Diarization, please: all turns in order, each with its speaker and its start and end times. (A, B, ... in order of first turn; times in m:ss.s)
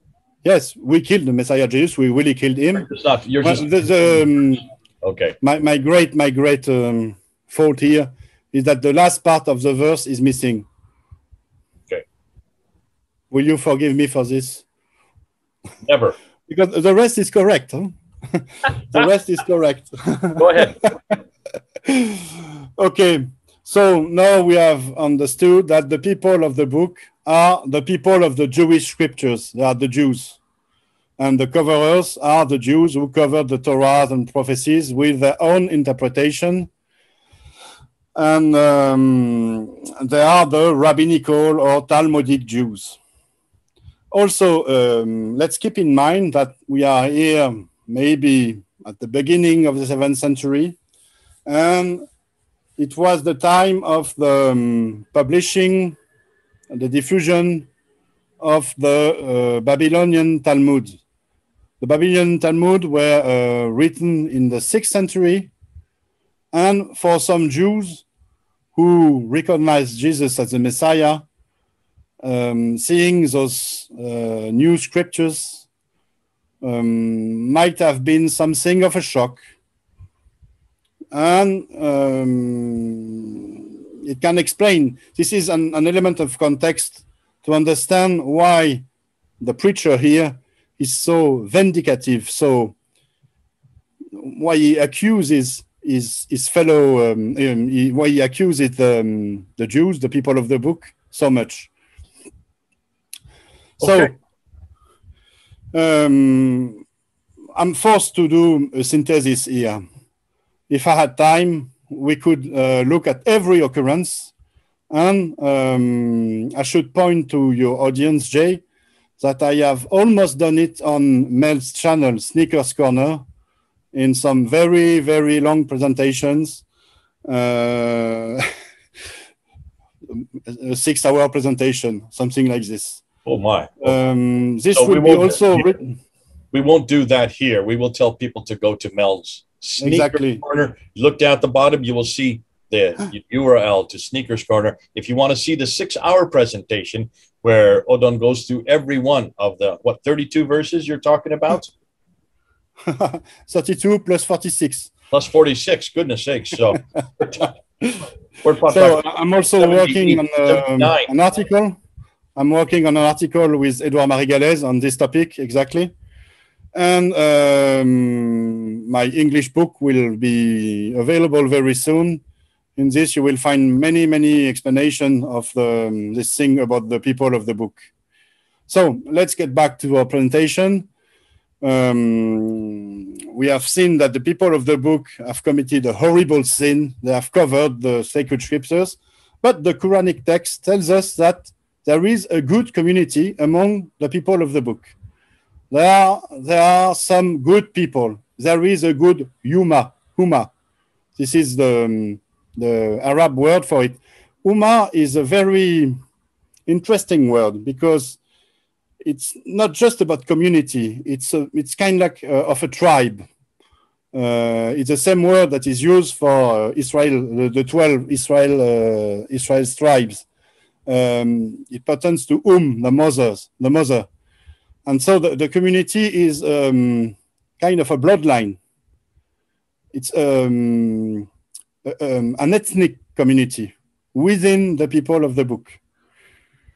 0:00.4-0:02.9 A
0:02.8-0:04.2 B
0:03.4-0:04.6 A
0:05.0-0:05.4 B
0:05.4-0:10.7 A
0:13.3-0:14.6 A
0:15.8-0:16.2 B
0:16.5-0:20.9 A
0:20.4-0:20.9 B
0:21.8-0:30.4 A
0:31.2-0:36.7 A
0:38.1-0:43.0 A
0:44.1-0:50.8 A
0:51.4-0:52.0 A
0:52.8-0:56.0 A
0:56.7-0:57.7 A
0:58.4-1:01.0 A
1:01.8-1:05.5 A
1:06.5-1:08.0 A
1:08.7-1:11.2 A
1:12.2-1:15.7 A
1:16.6-1:19.4 A
1:21.1-1:28.8 A
1:29.4-1:32.7 A
1:34.1-1:41.7 A
1:43.8-1:44.1 B
1:43.8-1:44.1 A
1:45.7-1:46.8 A
1:47.6-1:49.8 A
1:50.7-1:54.3 A
1:54.9-1:58.6 A
1:59.2-2:03.2 A
2:03.9-2:06.6 A
2:07.2-2:08.5 A
2:10.1-2:13.0 A
2:13.2-2:13.9 B
2:13.8-2:15.9 A
2:14.7-2:15.8 B
2:16.5-2:31.7 B
2:19.8-2:20.4 A
2:32.8-2:34.9 A
2:35.1-2:37.5 B
2:38.4-2:41.1 B
2:38.7-2:41.8 A
2:42.4-2:45.9 A
2:46.7-2:52.2 A
2:52.8-2:57.9 A
2:58.7-3:00.9 A
3:01.6-3:14.9 A
3:15.7-3:20.5 A
3:21.2-3:26.0 A
3:26.7-3:28.2 A
3:29.0-3:33.2 A
3:34.1-3:40.2 A
3:40.8-3:44.1 A
3:44.8-3:48.6 A
3:49.9-3:51.3 A
3:51.8-3:55.8 A